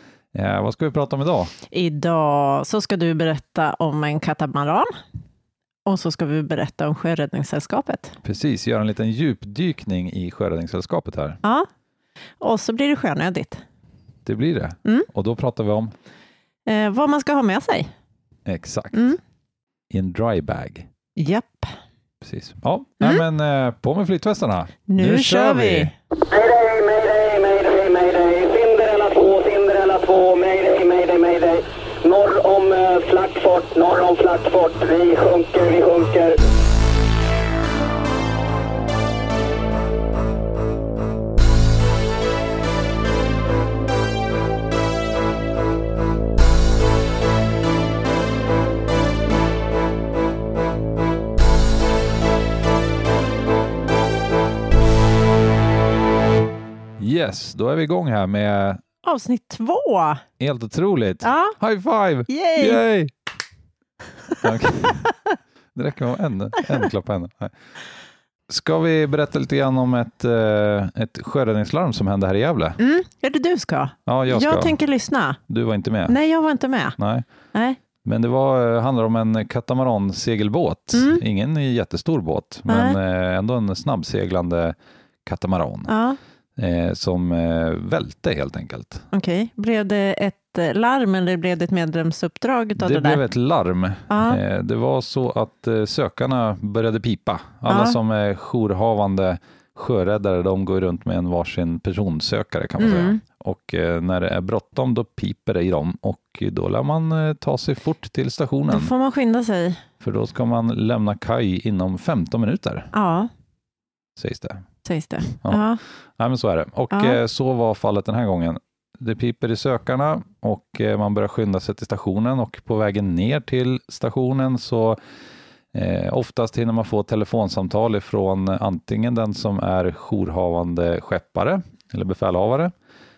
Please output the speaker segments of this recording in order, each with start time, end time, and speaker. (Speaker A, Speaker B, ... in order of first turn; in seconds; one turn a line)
Speaker A: 0.3-1.5
Speaker B: 1.7-4.9
Speaker B: 5.8-8.2
Speaker A: 8.2-11.4
Speaker B: 11.4-11.7
Speaker B: 12.4-13.6
Speaker A: 14.2-15.9
Speaker B: 16.7-17.9
Speaker A: 18.5-19.2
Speaker B: 18.9-19.2
Speaker A: 19.9-20.9
Speaker B: 21.2-21.8
Speaker A: 22.2-25.9
Speaker B: 24.9-25.9
Speaker C: 26.2-36.4
Speaker A: 57.0-58.8
Speaker B: 59.0-60.2
Speaker A: 60.4-63.1
Speaker B: 61.2-61.6
Speaker B: 62.3-62.8
Speaker B: 64.3-65.3
Speaker A: 64.4-65.1
Speaker A: 65.8-67.8
Speaker A: 68.5-72.8
Speaker B: 72.8-75.4
Speaker A: 74.1-74.8
Speaker A: 75.5-76.2
Speaker B: 76.1-77.0
Speaker A: 77.0-77.3
Speaker B: 77.5-77.8
Speaker A: 78.0-85.9
Speaker B: 80.9-81.2
Speaker B: 82.7-83.0
Speaker B: 85.9-86.2
Speaker A: 86.6-89.1
Speaker B: 89.1-93.2
Speaker A: 92.8-108.9
Speaker B: 94.1-94.4
Speaker B: 97.7-98.0
Speaker B: 102.8-103.2
Speaker B: 108.7-109.8
Speaker A: 110.0-112.9
Speaker B: 112.9-113.3
Speaker A: 114.2-114.7
Speaker B: 114.8-115.8
Speaker A: 115.3-125.0
Speaker B: 116.9-117.2
Speaker A: 125.7-132.7